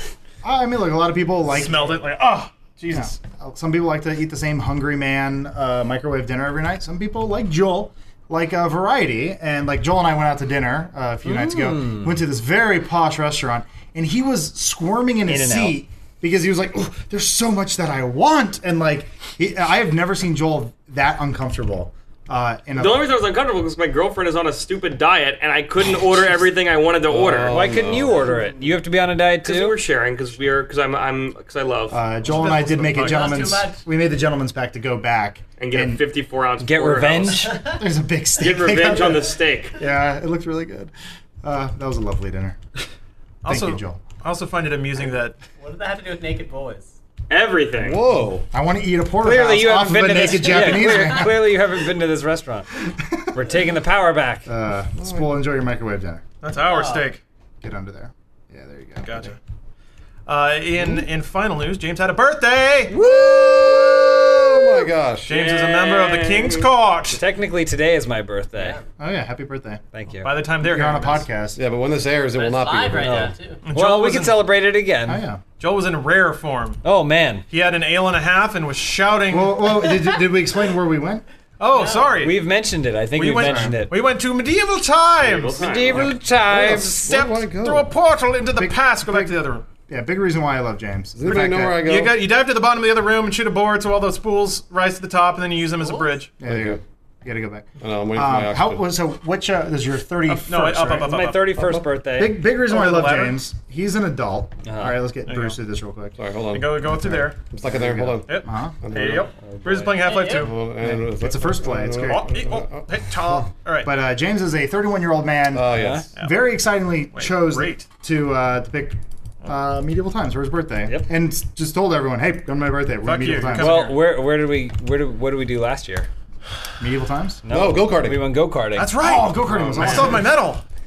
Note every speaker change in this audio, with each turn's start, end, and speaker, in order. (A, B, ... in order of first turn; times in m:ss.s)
0:00.4-0:02.0 A
0:01.5-0:03.2 B
0:02.9-0:23.1 A
0:11.2-0:12.2 C
0:15.3-0:15.8 C
0:22.8-0:27.6 D
0:27.1-0:28.2 E
0:27.5-0:29.8 C
0:28.1-0:28.7 F
0:29.4-0:32.0 D
0:31.9-0:36.0 A
0:32.3-0:33.4 B
0:32.6-0:33.8 F
0:35.6-0:37.6 D
0:36.6-0:37.5 C
0:37.3-0:37.8 F
0:37.7-0:40.9 A
0:38.4-0:39.8 D
0:41.4-0:42.6 A
0:43.4-0:45.4 B
0:43.4-0:44.0 A
0:45.6-0:46.9 F
0:47.3-0:48.0 D
0:47.8-0:48.5 E
0:48.5-0:51.6 A
0:49.2-0:52.7 C
0:50.2-0:51.2 F
0:53.3-0:54.5 C
0:54.4-0:56.2 A
0:55.0-0:55.3 E
0:56.4-0:57.2 B
0:56.6-0:57.1 F
0:57.6-0:59.3 A
0:59.0-0:59.4 B
1:00.2-1:03.0 B
1:02.9-1:05.3 E
1:05.3-1:07.2 B
1:05.3-1:06.7 D
1:07.1-1:08.8 C
1:08.6-1:08.8 F
1:09.0-1:09.8 A
1:09.9-1:10.4 C
1:10.2-1:11.2 B
1:10.6-1:11.6 A
1:11.5-1:13.4 E
1:12.3-1:13.7 F
1:13.0-1:15.2 C
1:13.6-1:14.4 B
1:15.1-1:15.4 A
1:15.6-1:16.8 B
1:16.8-1:17.4 C
1:17.5-1:19.8 B
1:19.3-1:21.2 A
1:21.6-1:22.4 B
1:21.7-1:22.2 F
1:22.2-1:24.0 C
1:23.1-1:26.1 B
1:23.4-1:23.7 A
1:25.2-1:26.2 D
1:25.6-1:27.2 C
1:26.5-1:27.9 E
1:27.0-1:29.6 B
1:28.6-1:31.9 A
1:31.2-1:32.2 E
1:31.3-1:36.4 B
1:35.8-1:36.2 F
1:36.4-1:41.1 A
1:36.4-1:36.8 E
1:37.8-1:38.8 E
1:40.3-1:41.7 B
1:41.0-1:42.4 C
1:41.6-1:41.8 E
1:42.2-1:46.2 A
1:42.6-1:43.4 B
1:44.6-1:45.0 C
1:45.2-1:45.6 B
1:46.2-1:49.3 E
1:46.5-1:47.4 B
1:47.6-1:48.8 A
1:48.2-1:50.5 B
1:49.5-1:50.1 C
1:50.0-1:50.5 F
1:50.3-1:53.0 E
1:50.7-1:52.3 A
1:52.0-1:53.9 B
1:53.3-2:03.8 A
1:55.5-1:56.1 E
1:55.7-1:56.0 C
1:56.2-1:56.5 B
1:57.1-1:57.9 B
2:03.0-2:04.0 B
2:03.5-2:06.1 C
2:06.8-2:07.4 A
2:07.4-2:09.0 C
2:07.5-2:08.3 E
2:08.7-2:10.6 B
2:09.0-2:10.3 A